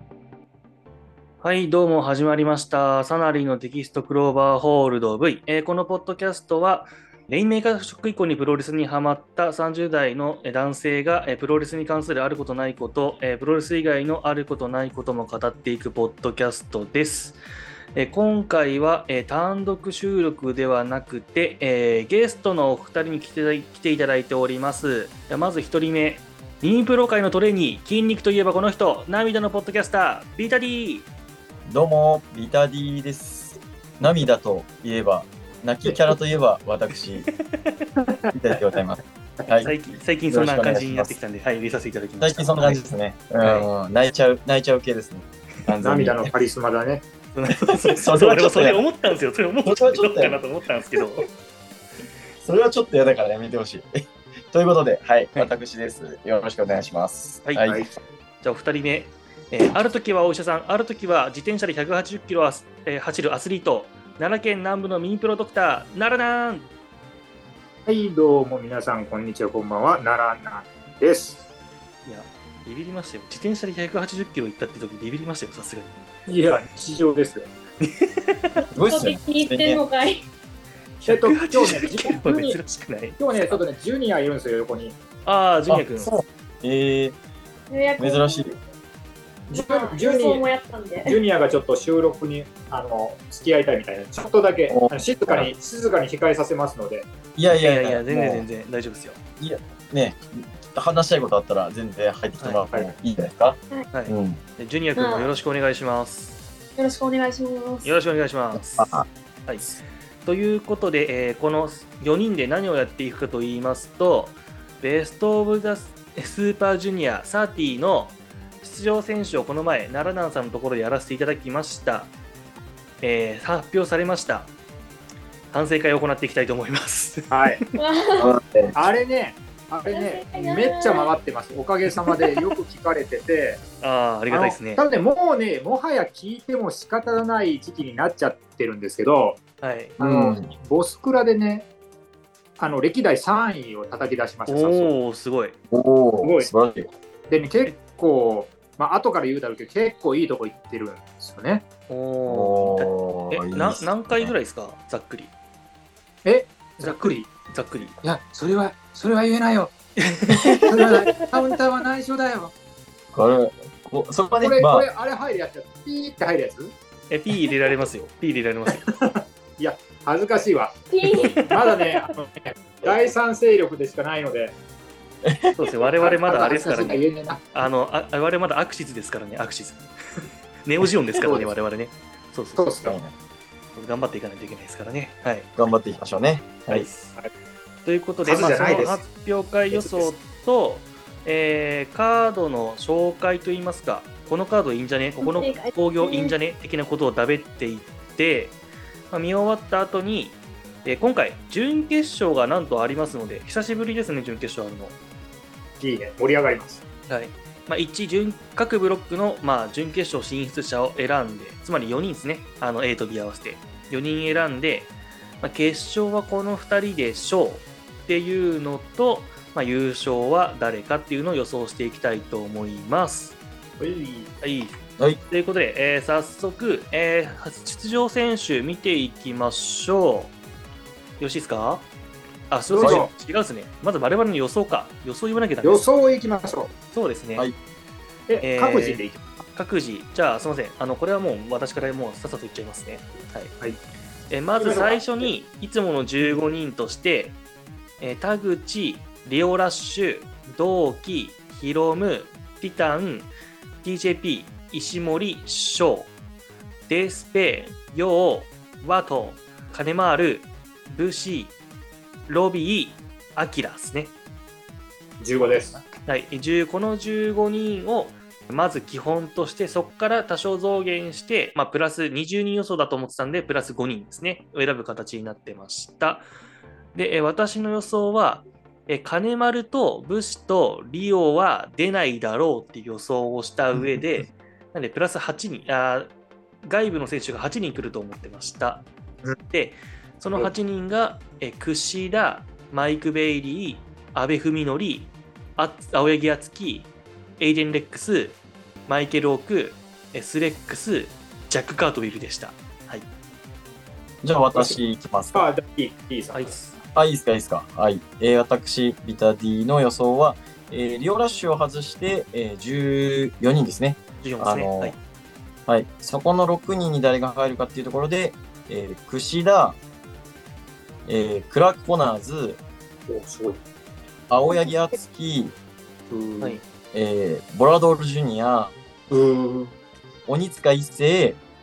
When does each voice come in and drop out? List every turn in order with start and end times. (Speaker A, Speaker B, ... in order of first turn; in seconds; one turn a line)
Speaker A: 1.4-17.4
Speaker A: 17.9-31.1
Speaker B: 31.6-37.3
Speaker C: 35.9-36.1
Speaker A: 37.5-37.9
Speaker C: 38.0-38.3
Speaker B: 38.3-39.8
Speaker A: 39.6-42.8
Speaker B: 40.3-41.1
Speaker B: 42.2-46.3
Speaker A: 43.4-43.7
Speaker C: 45.8-47.0
Speaker A: 47.3-51.2
Speaker B: 47.5-48.8
Speaker B: 49.6-50.4
Speaker B: 52.4-57.8
Speaker C: 57.6-57.9
Speaker A: 58.4-66.7
Speaker C: 67.8-71.4
Speaker A: 72.0-76.0
Speaker C: 76.3-77.5
Speaker A: 77.8-78.6
Speaker B: 78.7-79.8
Speaker D: 78.9-80.2
Speaker A: 81.0-83.6
Speaker C: 81.0-82.6
Speaker C: 83.2-85.0
Speaker A: 85.2-86.1
Speaker B: 85.7-87.2
Speaker D: 87.7-88.6
Speaker B: 88.0-88.5
Speaker C: 89.5-90.4
Speaker D: 89.5-91.2
Speaker C: 91.0-97.1
Speaker B: 94.7-95.5
Speaker B: 97.3-98.4
Speaker A: 97.5-99.2
Speaker B: 99.4-104.4
Speaker A: 102.4-102.7
Speaker A: 103.9-106.4
Speaker D: 105.0-105.3
Speaker D: 106.8-107.9
Speaker A: 107.8-122.1
Speaker B: 108.5-109.0
Speaker A: 123.0-124.5
Speaker A: 125.5-127.6
Speaker C: 127.3-127.6
Speaker D: 127.8-128.3
Speaker B: 128.2-128.8
Speaker C: 128.7-133.6
Speaker D: 129.9-131.1
Speaker A: 133.8-134.8
Speaker C: 134.3-139.4
Speaker A: 139.6-140.0
Speaker C: 140.0-141.7
Speaker B: 140.0-140.5
Speaker C: 142.6-144.9
Speaker A: 144.5-145.5
Speaker B: 145.7-146.9
Speaker C: 146.2-146.5
Speaker C: 147.3-151.6
Speaker A: 151.9-155.3
Speaker B: 152.3-154.3
Speaker C: 156.2-157.3
Speaker A: 156.8-158.0
Speaker C: 158.0-159.7
Speaker A: 160.0-161.1
Speaker C: 160.7-162.5
Speaker B: 163.1-164.8
Speaker C: 164.4-166.7
Speaker A: 167.1-168.9
Speaker C: 168.7-170.8
Speaker D: 170.9-171.4
Speaker C: 171.4-174.6
Speaker B: 175.2-175.6
Speaker A: 175.6-179.8
Speaker C: 176.0-177.4
Speaker A: 180.6-182.7
Speaker C: 181.1-181.5
Speaker C: 182.6-183.0
Speaker B: 182.8-183.1
Speaker A: 183.8-185.5
Speaker B: 185.6-186.9
Speaker A: 186.7-187.1
Speaker A: 187.8-198.6
Speaker C: 188.2-189.0
Speaker C: 189.7-190.1
Speaker D: 195.2-196.3
Speaker A: 199.1-204.9
Speaker C: 205.8-206.8
Speaker A: 207.1-223.4
Speaker C: 223.8-224.3
Speaker A: 224.4-224.7
Speaker A: 225.3-230.3
Speaker A: 231.2-231.9
Speaker A: 232.5-235.8
Speaker C: 232.7-233.1
Speaker B: 232.8-233.1
Speaker C: 235.6-236.7
Speaker A: 236.9-237.5
Speaker C: 238.3-239.2
Speaker A: 238.4-239.0
Speaker A: 239.5-243.5
Speaker A: 244.3-247.4
Speaker C: 244.6-245.3
Speaker A: 248.0-253.3
Speaker A: 253.8-256.1
Speaker A: 256.9-261.5
Speaker A: 262.3-264.1
Speaker C: 265.2-265.8
Speaker A: 265.5-276.2
Speaker A: 276.9-286.1
Speaker B: 283.7-284.2
Speaker A: 286.6-288.9
Speaker A: 289.5-303.1
Speaker B: 304.2-305.5
Speaker C: 305.3-306.6
Speaker A: 306.3-306.8
Speaker B: 306.9-314.9
Speaker A: 314.2-315.0
Speaker B: 315.7-319.8
Speaker B: 321.1-322.6
Speaker C: 323.1-323.6
Speaker B: 324.3-325.5
Speaker C: 326.1-326.6
Speaker B: 326.9-328.7
Speaker C: 329.1-329.7
Speaker B: 330.3-331.4